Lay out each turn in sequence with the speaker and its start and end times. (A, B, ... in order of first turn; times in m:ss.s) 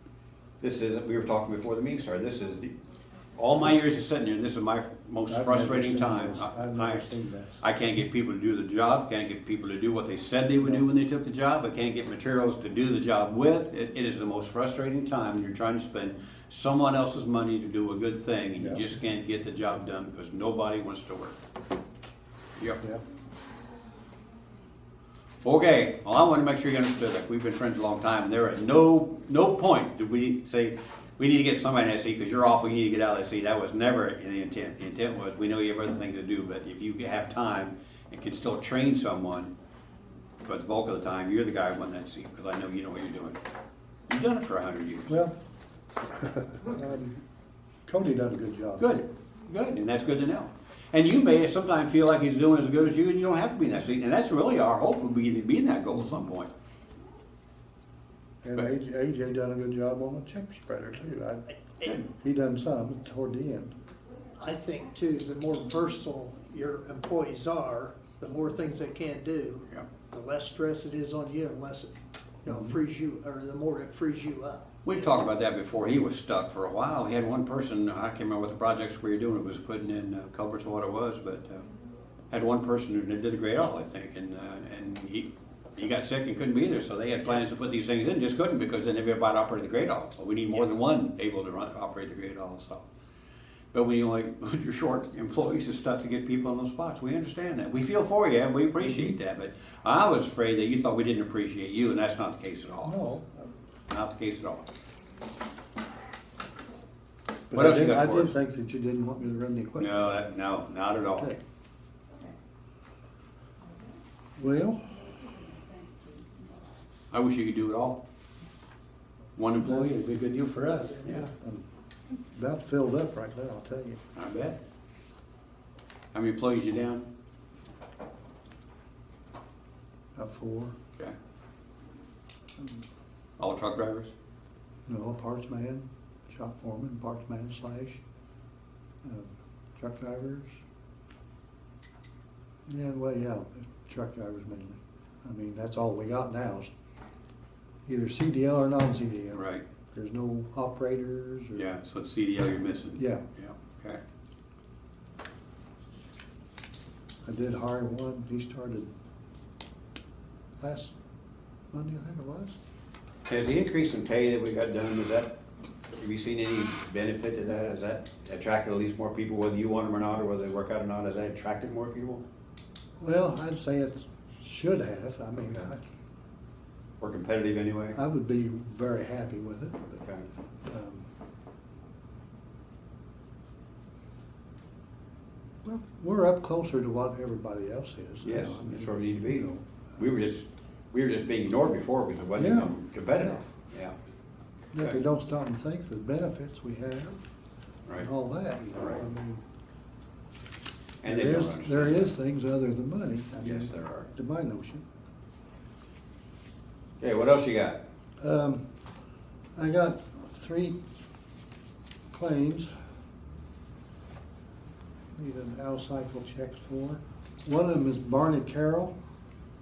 0:00.6-0:02.7 A
0:03.3-0:21.4 A
0:05.3-0:07.6 B
0:18.6-0:18.8 B
0:22.6-0:22.8 A
0:25.4-0:39.5 A
0:40.4-0:43.4 A
0:44.1-0:45.2 A
0:45.1-0:45.3 B
0:46.5-0:47.2 B
0:47.9-0:48.9 B
0:48.8-0:56.5 A
0:58.4-1:03.7 B
1:04.4-1:11.9 C
1:12.4-1:14.8 C
1:12.5-1:12.7 B
1:14.8-1:21.6 A
1:22.3-1:32.8 A
1:33.7-1:42.9 A
1:38.8-1:39.1 B
1:42.8-1:43.5 B
1:43.9-1:44.7 A
1:47.5-1:50.0 B
1:47.5-1:48.3 A
1:49.8-1:51.3 A
1:54.4-1:54.8 B
1:57.1-1:58.0 A
1:59.4-2:01.3 A
1:59.6-2:00.0 B
2:01.0-2:01.6 B
2:02.3-2:04.0 B
2:04.1-2:04.6 A
2:06.1-2:07.0 A
2:10.1-2:10.7 B
2:13.4-2:14.1 A
2:14.9-2:18.0 B
2:19.0-2:20.6 B
2:22.7-2:26.7 B
2:27.8-2:31.6 B
2:29.3-2:29.6 A
2:31.5-2:34.0 A
2:33.0-2:33.2 B
2:37.2-2:38.9 B
2:40.6-2:40.9 B
2:41.7-2:42.6 B
2:43.2-2:45.4 A
2:45.9-2:52.2 A
2:53.0-2:55.9 B
2:55.4-2:55.7 A
2:57.0-2:58.0 A
2:57.9-2:59.9 B
2:59.9-3:00.3 A
3:00.6-3:01.1 B
3:05.6-3:09.8 B
3:08.2-3:13.9 A
3:12.4-3:13.4 B
3:14.7-3:17.2 B
3:18.0-3:19.4 B
3:21.0-3:22.1 A
3:21.0-3:24.8 B
3:23.4-3:24.1 A
3:27.0-3:27.8 A
3:28.2-3:28.6 B
3:29.6-3:30.8 B
3:32.1-3:32.7 B
3:35.1-3:38.9 B